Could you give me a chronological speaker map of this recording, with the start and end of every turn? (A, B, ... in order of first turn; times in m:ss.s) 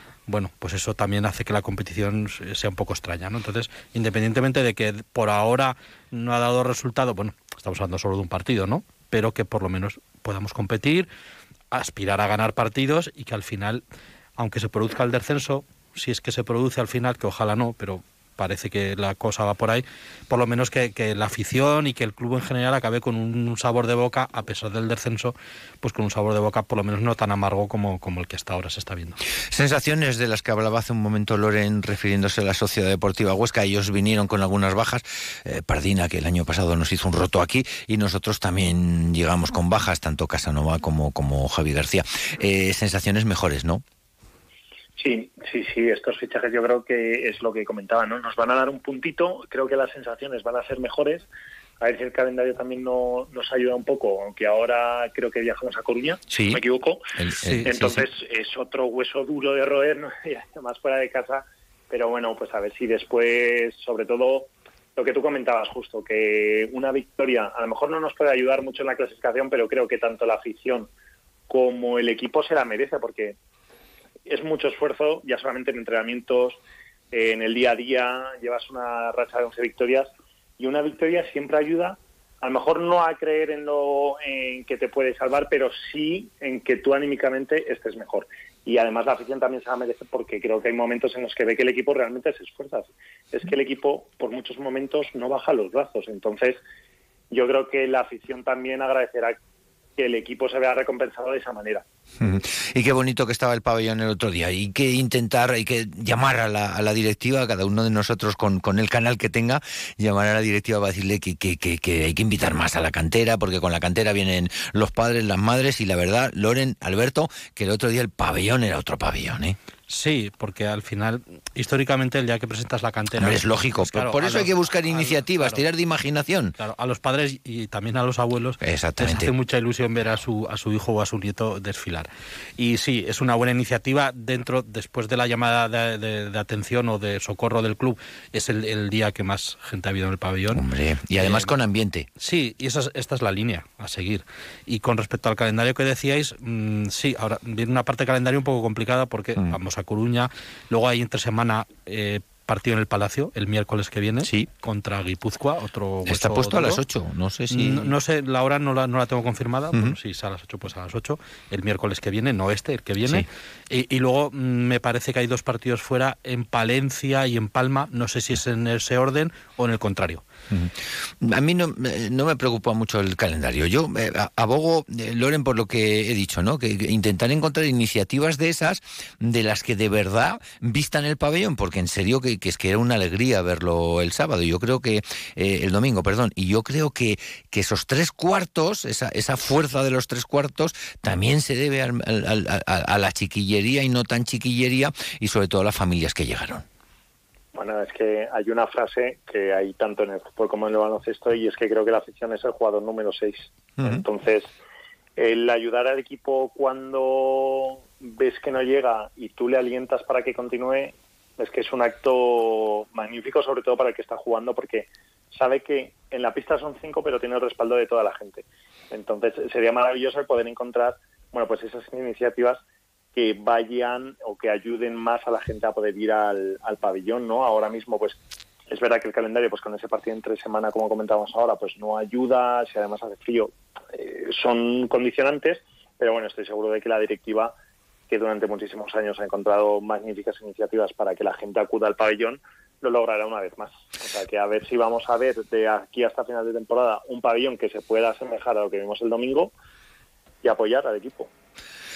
0:00.3-0:11.1 A
0:11.7-0:13.8 A
0:14.4-0:29.2 A
0:29.5-0:43.8 B
0:45.0-0:51.3 C
0:51.8-0:57.0 C
0:56.3-0:56.6 B
0:57.2-0:58.0 B
0:57.4-0:57.7 A
0:57.7-1:10.9 C
1:11.5-1:13.4 C
1:14.3-1:16.6 C
1:17.1-1:20.1 C
1:20.6-1:36.6 C
1:37.3-1:39.4 C
1:40.0-1:41.8 C
1:42.2-1:59.6 B
1:59.9-2:05.6 A
2:03.2-2:06.6 B
2:06.6-2:20.6 A
2:08.6-2:09.3 B
2:20.5-2:22.1 B
2:21.2-2:21.5 A
2:22.2-2:36.8 A
2:34.2-2:34.5 B
2:36.1-2:37.9 B
2:37.5-2:50.2 A
2:50.5-3:16.7 B
3:17.5-3:24.5 C
3:23.8-3:24.0 B
3:25.2-3:42.6 C
3:43.2-3:48.2 C
3:48.7-3:57.5 C
3:58.1-4:09.5 C
4:10.4-4:11.3 C